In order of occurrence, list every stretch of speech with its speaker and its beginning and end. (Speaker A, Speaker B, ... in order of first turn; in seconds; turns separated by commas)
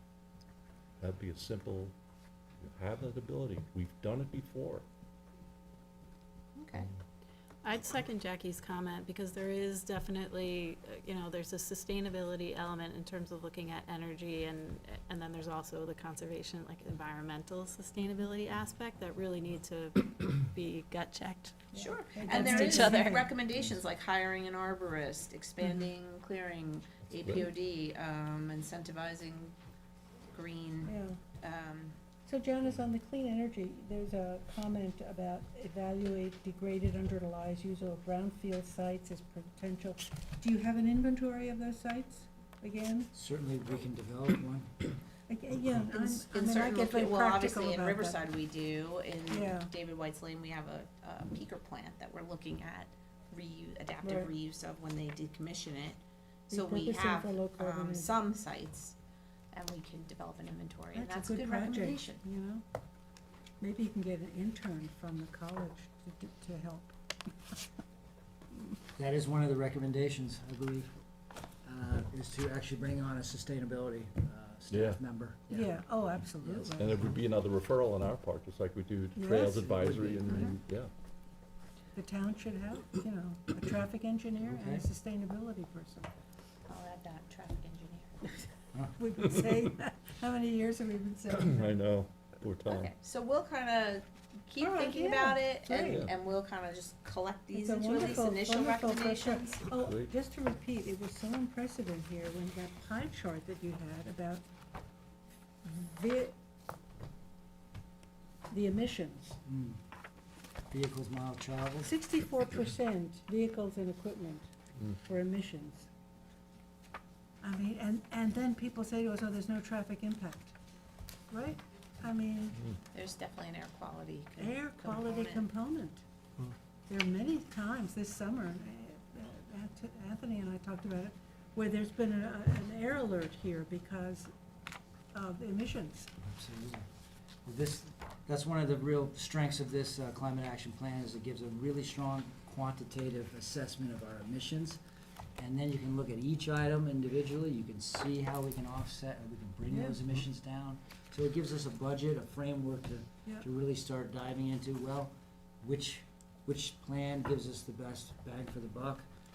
Speaker A: 1.0-1.9, Speaker A: 2.6-4.8, Speaker B: 6.6-6.9, Speaker C: 7.6-21.7, Speaker D: 21.7-23.4, Speaker B: 21.7-29.6, Speaker C: 22.4-23.0, Speaker A: 27.1-27.5, Speaker B: 30.3-32.0, Speaker D: 30.9-31.2, Speaker D: 32.3-43.1, Speaker E: 43.1-44.7, Speaker D: 45.3-48.2, Speaker B: 45.9-59.0, Speaker D: 49.3-49.7, Speaker D: 54.0-54.3, Speaker D: 56.5-58.1, Speaker B: 59.5-62.2, Speaker D: 60.9-62.6, Speaker D: 63.6-67.0, Speaker E: 69.0-71.0, Speaker E: 71.6-76.8, Speaker A: 74.7-75.0, Speaker D: 75.5-77.0, Speaker A: 76.8-80.9, Speaker D: 79.2-79.7, Speaker E: 79.5-80.5, Speaker D: 82.0-86.1, Speaker E: 84.4-84.9, Speaker B: 86.7-88.2, Speaker D: 89.0-91.8, Speaker A: 91.3-92.9, Speaker B: 92.7-99.6, Speaker D: 94.6-96.1, Speaker A: 95.7-96.1, Speaker D: 97.5-104.4, Speaker A: 99.7-100.1, Speaker D: 105.6-106.3, Speaker D: 108.5-109.4, Speaker E: 109.5-109.8, Speaker E: 110.7-112.0, Speaker D: 111.8-115.9, Speaker D: 117.4-120.5, Speaker D: 121.3-122.6, Speaker B: 122.9-125.5, Speaker D: 124.4-126.0, Speaker D: 126.9-134.3, Speaker D: 135.1-136.1, Speaker E: 136.2-136.9, Speaker E: 137.4-144.8, Speaker E: 145.4-159.1, Speaker D: 149.7-150.0